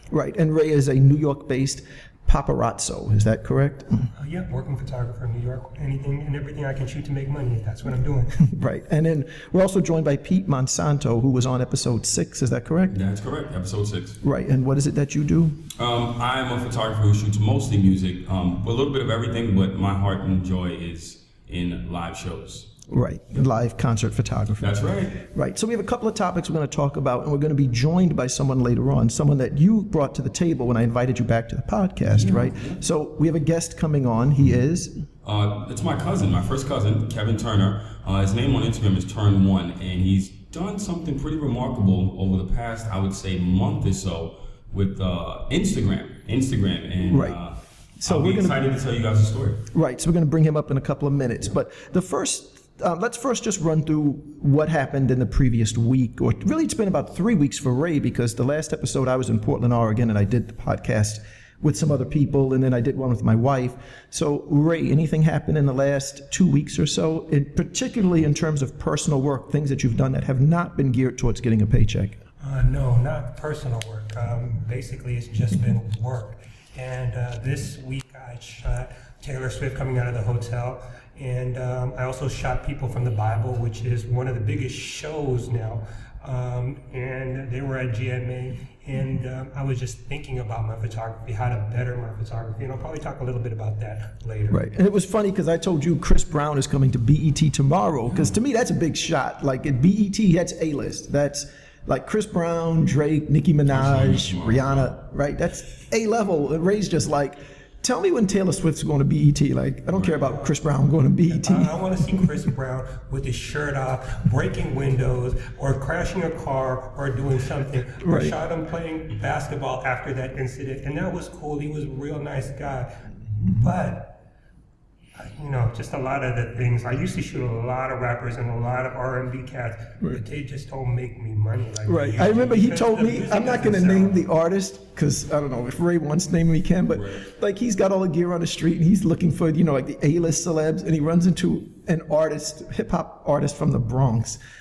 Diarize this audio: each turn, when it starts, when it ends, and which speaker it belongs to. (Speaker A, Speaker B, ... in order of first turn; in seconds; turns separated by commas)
Speaker A: 0.1-4.1, Speaker B: 4.2-8.4, Speaker A: 8.4-13.0, Speaker C: 12.9-14.2, Speaker A: 14.2-15.6, Speaker C: 15.7-22.7, Speaker A: 22.9-35.0, Speaker C: 24.6-25.2, Speaker C: 32.1-32.8, Speaker C: 35.2-49.6, Speaker A: 47.0-47.4, Speaker A: 48.0-48.6, Speaker A: 49.7-72.2, Speaker B: 72.4-94.6, Speaker A: 94.5-112.2, Speaker C: 103.7-104.9, Speaker B: 111.3-122.9, Speaker A: 118.0-118.3, Speaker B: 123.5-124.2, Speaker B: 125.2-134.2, Speaker A: 131.9-144.4, Speaker C: 136.9-137.2